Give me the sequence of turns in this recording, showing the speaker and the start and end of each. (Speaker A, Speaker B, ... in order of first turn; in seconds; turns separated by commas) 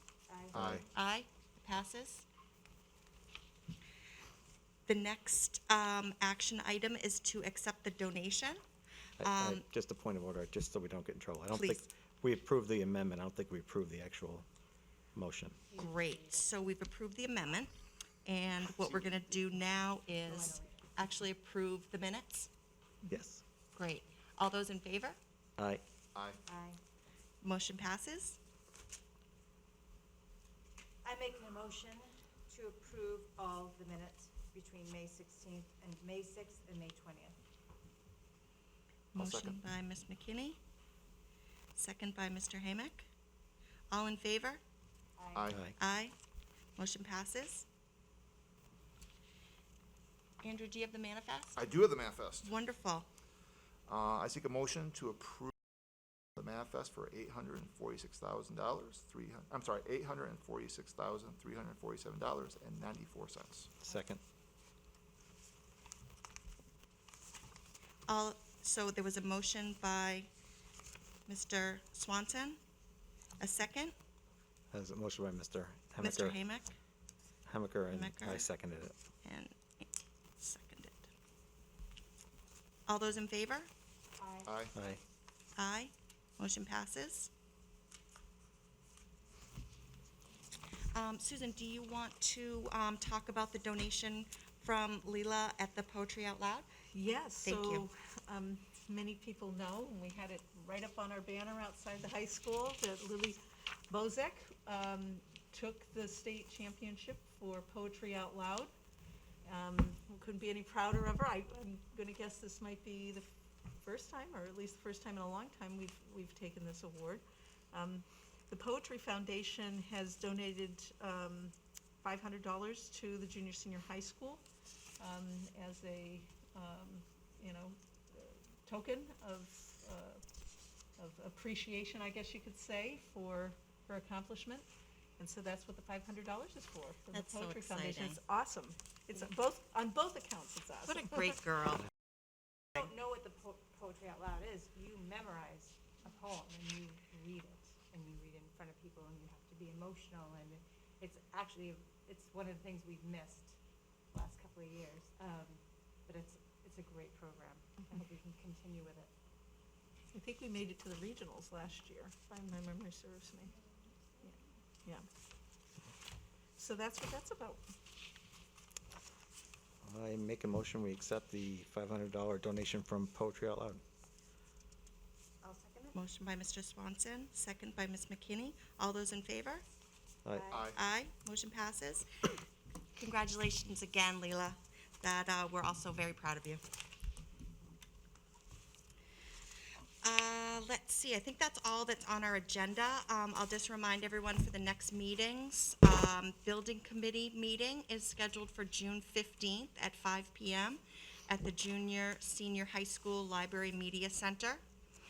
Speaker A: 0.3-0.6, Speaker B: 0.5-0.8, Speaker C: 0.6-0.9, Speaker D: 0.9-2.3, Speaker D: 4.9-8.6, Speaker D: 9.2-9.7, Speaker B: 9.2-14.5, Speaker D: 11.5-11.8, Speaker B: 15.2-15.6, Speaker A: 15.7-16.5, Speaker D: 15.8-17.7, Speaker D: 18.2-22.5, Speaker A: 20.2-20.9, Speaker B: 23.1-23.4, Speaker D: 23.8-25.2, Speaker B: 25.6-25.8, Speaker C: 26.1-26.4, Speaker A: 26.5-26.8, Speaker D: 27.4-28.4, Speaker A: 31.0-37.4, Speaker D: 39.1-40.6, Speaker C: 39.2-39.6, Speaker D: 41.8-43.1, Speaker D: 43.9-44.6, Speaker A: 45.2-45.5, Speaker C: 45.3-45.7, Speaker D: 45.8-46.1, Speaker D: 46.8-47.7, Speaker D: 50.4-51.7, Speaker C: 51.6-52.5, Speaker D: 52.4-53.1, Speaker C: 53.9-55.5, Speaker C: 56.4-63.8, Speaker B: 63.9-64.2, Speaker D: 68.1-70.3, Speaker D: 71.3-72.6, Speaker D: 73.4-73.9, Speaker B: 74.7-76.4, Speaker D: 76.0-76.7, Speaker B: 77.5-79.0, Speaker D: 77.9-78.5, Speaker D: 79.2-79.9, Speaker D: 80.4-81.1, Speaker D: 82.9-83.7, Speaker A: 84.2-84.9, Speaker C: 84.5-84.7, Speaker B: 84.8-85.0, Speaker D: 85.6-87.3, Speaker D: 90.9-96.7, Speaker E: 96.9-108.7, Speaker D: 97.4-97.9, Speaker E: 109.5-113.3, Speaker E: 113.8-124.5, Speaker E: 125.0-130.2, Speaker E: 131.0-141.3, Speaker D: 137.1-138.2, Speaker D: 140.9-141.8, Speaker A: 142.8-153.6, Speaker A: 154.1-159.1, Speaker E: 160.1-163.6, Speaker E: 164.2-165.1, Speaker E: 166.6-167.6, Speaker B: 169.8-173.8, Speaker A: 175.4-176.0, Speaker D: 175.9-179.6, Speaker A: 180.3-180.7, Speaker C: 180.5-180.8, Speaker D: 180.7-182.1, Speaker D: 183.0-186.6, Speaker D: 190.0-204.6